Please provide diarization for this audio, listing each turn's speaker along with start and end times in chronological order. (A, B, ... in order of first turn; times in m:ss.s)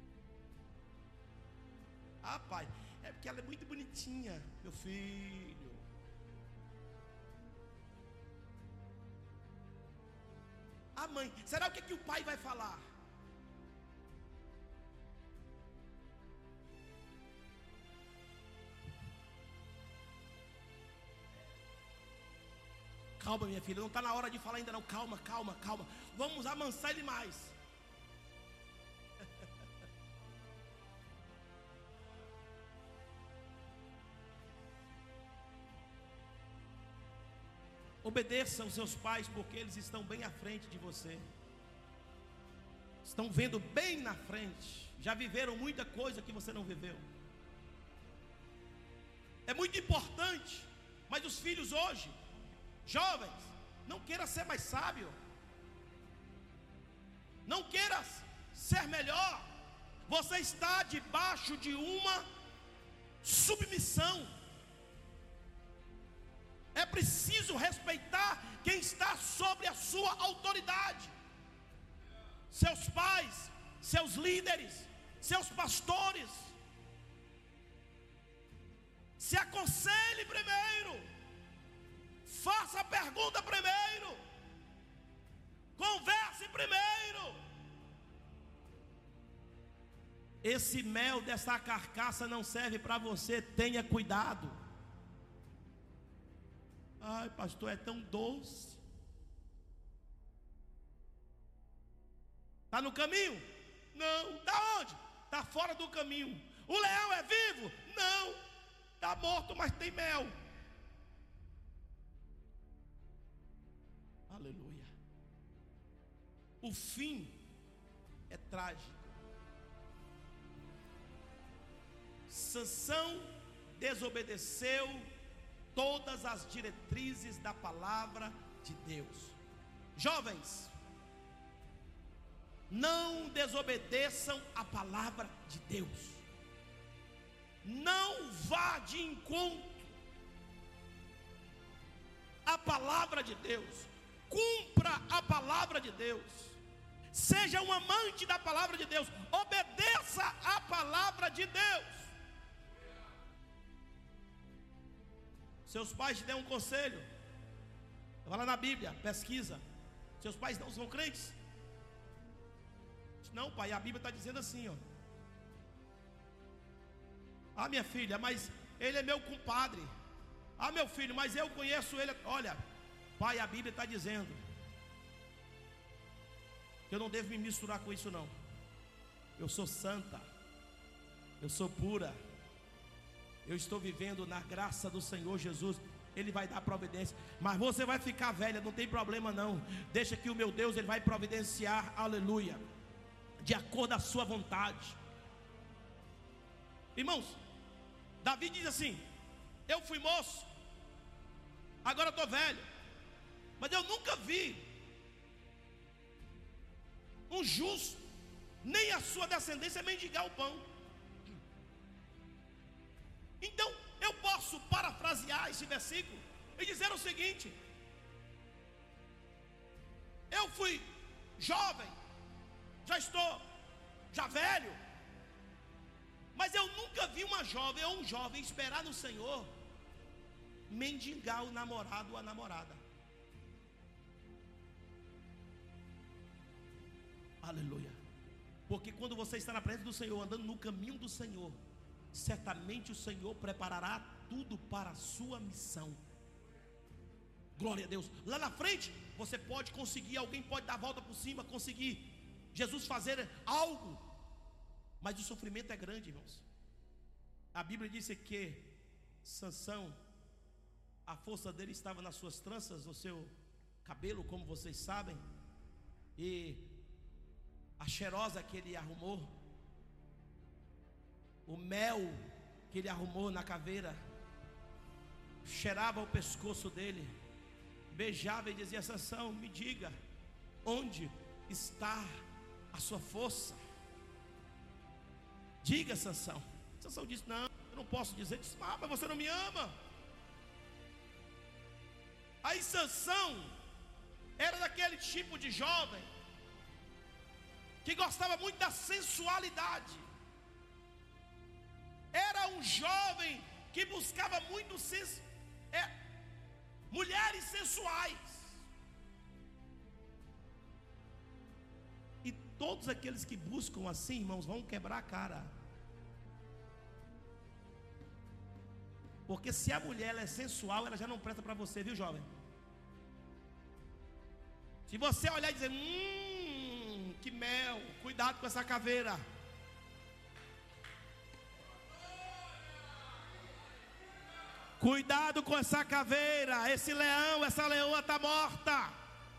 0:02.2-0:05.8 A
0:11.0-0:12.8 A
0:23.2-0:27.6 A
0:38.0-0:41.2 A
0:43.0-0:47.0 A
0:49.5-0:52.2 A
0:52.8-0:55.2 A
0:57.5-0:59.5 A
1:00.1-1:02.3 A
1:03.2-1:04.3 A
1:06.8-1:11.1 A
1:12.5-1:16.6 A
1:19.2-1:21.1 A
1:22.2-1:24.2 A
1:25.8-1:27.4 A
1:30.4-1:34.6 A
1:37.0-1:38.8 A
1:42.7-1:48.4 A
1:49.0-1:50.3 A
1:54.3-1:54.9 A
1:56.6-1:57.4 A
1:58.3-1:59.2 A
2:02.3-2:05.1 A
2:05.8-2:09.4 A
2:10.0-2:10.7 A
2:12.7-2:16.2 A
2:17.6-2:19.9 A
2:22.5-2:26.6 A
2:27.1-2:32.1 A
2:35.7-2:37.1 A
2:38.2-2:39.6 A
2:40.2-2:41.4 A
2:43.2-2:44.8 A
2:47.6-2:49.9 A
2:50.6-2:52.6 A
2:53.2-2:54.4 A
2:56.9-2:58.3 A
2:59.4-3:00.3 A
3:01.4-3:02.2 A
3:03.4-3:12.6 A
3:13.4-3:15.0 A
3:17.0-3:17.4 A
3:18.2-3:19.0 A
3:19.7-3:20.5 A
3:21.8-3:22.7 A
3:23.6-3:24.7 A
3:27.3-3:28.0 A
3:28.6-3:30.7 A
3:33.4-3:37.6 A
3:40.3-3:41.9 A
3:42.8-3:43.5 A
3:44.1-3:44.8 A
3:46.4-3:49.5 A
3:50.7-3:52.8 A
3:57.4-3:58.0 A
3:58.7-4:01.6 A
4:02.1-4:06.0 A
4:07.6-4:14.0 A
4:15.0-4:16.4 A
4:17.5-4:20.0 A
4:21.1-4:23.3 A
4:23.8-4:25.2 A
4:26.2-4:26.7 A
4:27.8-4:29.3 A
4:31.5-4:34.0 A
4:35.4-4:37.1 A
4:37.9-4:40.0 A
4:40.6-4:43.6 A
4:45.6-4:49.8 A
4:52.4-4:53.6 A
4:54.4-4:56.1 A
4:57.8-5:00.0 A
5:02.1-5:05.9 A
5:06.9-5:08.6 A
5:12.2-5:15.5 A
5:19.3-5:22.3 A
5:24.9-5:29.2 A
5:34.8-5:39.0 A